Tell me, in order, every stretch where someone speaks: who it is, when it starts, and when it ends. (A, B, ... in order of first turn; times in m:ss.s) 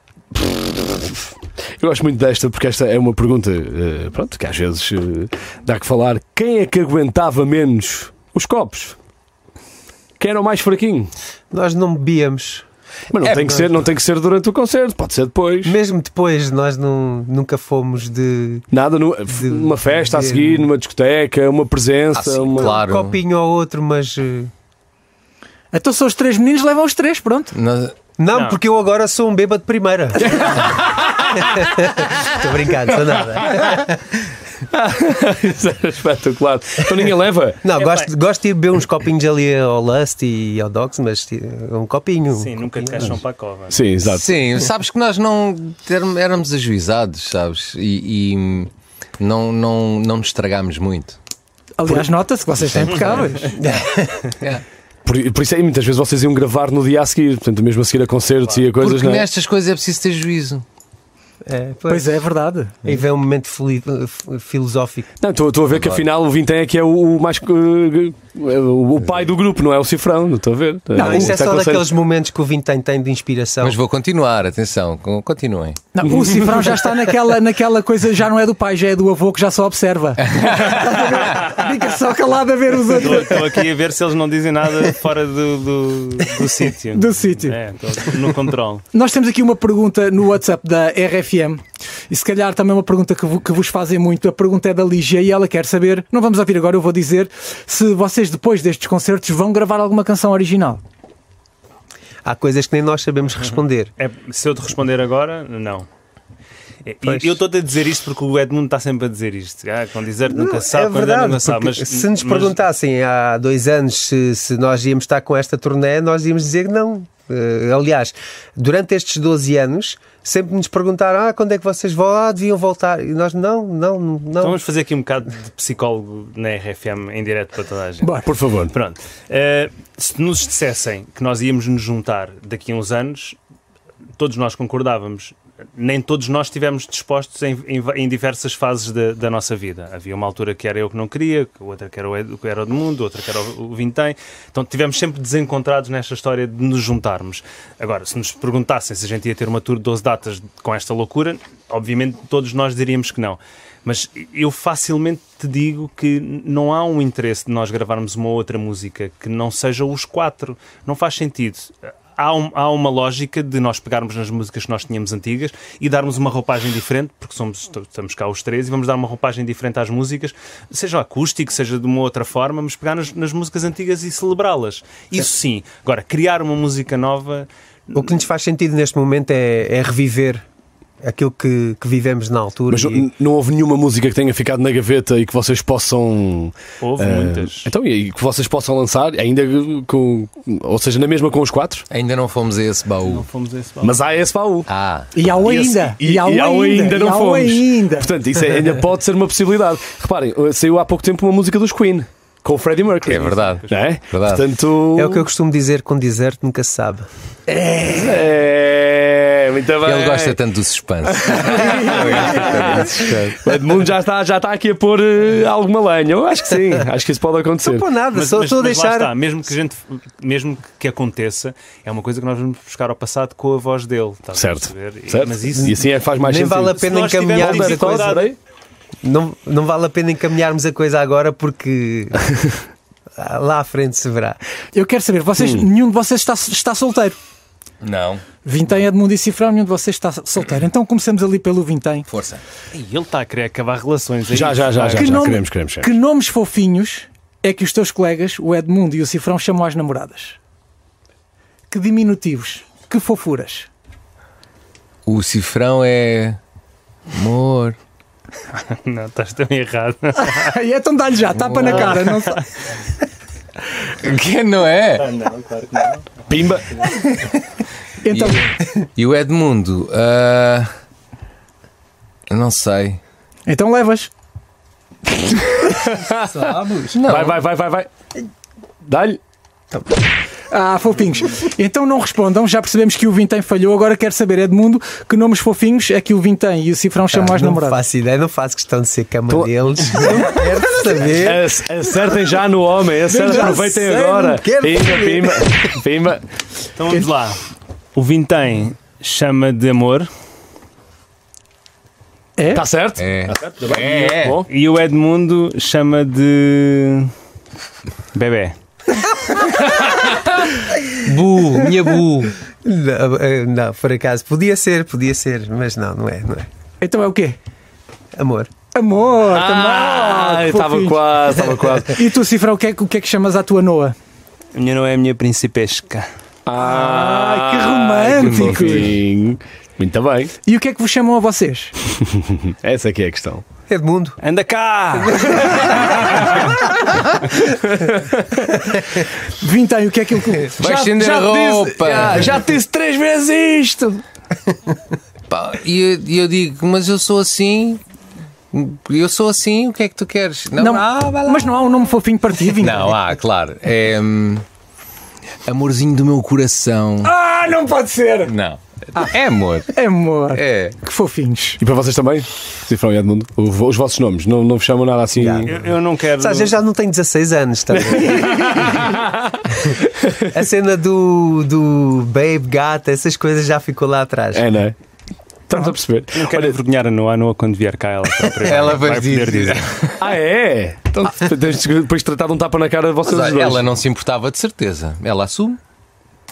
0:00.3-0:09.0 A
0:10.2-0:11.1 A
0:11.5-0:12.6 B
0:13.1-0:15.8 A
0:13.2-0:13.7 C
0:15.6-0:18.6 B
0:18.7-0:22.8 A
0:19.3-0:20.7 B
0:22.1-0:23.2 C
0:22.6-0:24.5 B
0:25.7-0:27.5 D
0:27.5-0:28.1 C
0:28.2-0:30.6 B
0:28.3-0:28.6 E
0:30.2-0:31.4 A
0:31.4-0:33.9 B
0:34.7-0:37.6 A
0:37.6-0:43.1 B
0:37.8-0:38.1 E
0:42.3-0:43.8 E
0:43.7-0:44.4 A
0:44.0-0:51.2 C
0:51.8-0:53.5 D
0:52.8-0:53.8 C
0:53.6-0:54.3 B
0:55.0-0:59.3 A
0:58.8-1:00.6 C
1:01.4-1:02.2 B
1:01.9-1:02.8 D
1:02.8-1:05.1 B
1:05.2-1:11.9 A
1:05.7-1:06.1 C
1:11.0-1:13.8 B
1:11.0-1:11.4 D
1:13.6-1:15.8 C
1:15.9-1:23.4 D
1:16.2-1:16.6 A
1:20.4-1:20.7 C
1:23.0-1:28.8 E
1:26.9-1:27.6 D
1:28.9-1:40.8 D
1:42.2-1:43.9 B
1:44.0-1:45.9 E
1:46.9-1:52.6 E
1:47.0-1:47.4 B
1:50.3-2:04.6 B
2:04.4-2:08.1 E
2:08.0-2:08.3 D
2:08.3-2:08.7 A
2:08.7-2:13.4 E
2:14.2-2:58.0 E
2:57.9-3:00.4 B
3:01.0-3:03.0 B
3:02.7-3:11.8 A
3:06.8-3:07.7 E
3:11.9-3:13.3 C
3:13.0-3:14.2 E
3:13.8-3:14.7 A
3:14.7-3:15.1 C
3:15.1-3:18.1 D
3:15.4-3:25.3 A
3:23.1-3:24.5 C
3:23.2-3:23.8 E
3:25.0-3:27.1 B
3:27.5-3:30.4 A
3:29.8-3:33.2 C
3:31.0-3:37.8 A
3:37.6-3:39.2 B
3:38.1-3:45.8 E
3:44.3-3:48.4 A
3:45.7-3:48.2 B
3:46.7-3:48.3 E
3:49.0-3:52.2 B
3:53.2-3:54.4 B
3:54.7-3:57.2 D
3:55.4-3:55.7 A
3:57.8-3:58.2 C
3:58.4-4:02.1 D
4:02.1-4:02.4 C
4:02.7-4:05.2 E
4:04.3-4:05.9 A
4:04.9-4:10.4 D
4:11.7-4:13.7 D
4:15.1-4:16.4 C
4:17.1-4:17.8 C
4:18.6-4:20.5 E
4:20.3-4:22.4 D
4:21.4-4:22.1 C
4:21.6-4:22.4 E
4:24.0-4:25.0 C
4:25.0-4:26.1 E
4:26.3-4:26.7 A
4:28.0-4:28.4 D
4:28.1-4:30.7 C
4:32.3-4:33.0 C
4:33.5-4:34.1 D
4:35.9-4:37.0 B
4:36.9-4:37.4 C
4:37.1-4:37.9 A
4:38.8-4:39.2 A
4:40.5-4:47.8 D
4:47.1-4:51.5 B
4:49.3-4:50.3 A
4:51.2-4:56.2 A
4:53.1-4:53.7 D
4:53.2-4:55.7 B
4:56.8-4:57.4 E
4:58.0-5:00.1 E
5:02.4-5:02.6 D
5:02.5-5:04.5 A
5:03.0-5:04.4 C
5:04.5-5:07.1 E
5:08.2-5:08.6 E
5:11.0-5:12.3 C
5:11.5-5:11.9 B
5:12.6-5:16.5 B
5:16.8-5:17.4 D
5:18.2-5:18.5 B
5:18.7-5:24.0 D
5:19.3-5:22.0 A
5:24.6-5:26.1 E
5:26.5-5:30.3 A
5:26.6-5:28.9 D
5:28.2-5:28.9 C
5:30.4-5:31.8 D
5:32.3-5:33.4 A
5:33.7-5:34.2 B
5:34.2-5:36.6 E
5:37.5-5:38.1 A
5:39.4-5:41.0 D
5:40.6-5:42.4 C
5:40.6-5:44.0 A
5:45.3-5:47.8 C
5:48.5-5:51.6 C
5:50.6-5:53.0 D
5:52.6-5:54.4 C
5:55.5-5:57.1 C
5:57.0-5:58.3 D
5:58.2-5:59.7 C
5:59.7-6:01.6 D
6:00.3-6:00.8 C
6:01.6-6:05.5 A
6:05.2-6:05.6 B
6:05.5-6:06.6 E
6:06.2-6:08.8 B
6:07.8-6:09.4 A
6:10.3-6:14.4 B
6:14.3-6:14.8 A
6:15.5-6:16.6 A
6:16.1-6:19.6 E
6:18.3-6:20.0 C
6:20.0-6:23.7 A
6:23.0-6:25.6 C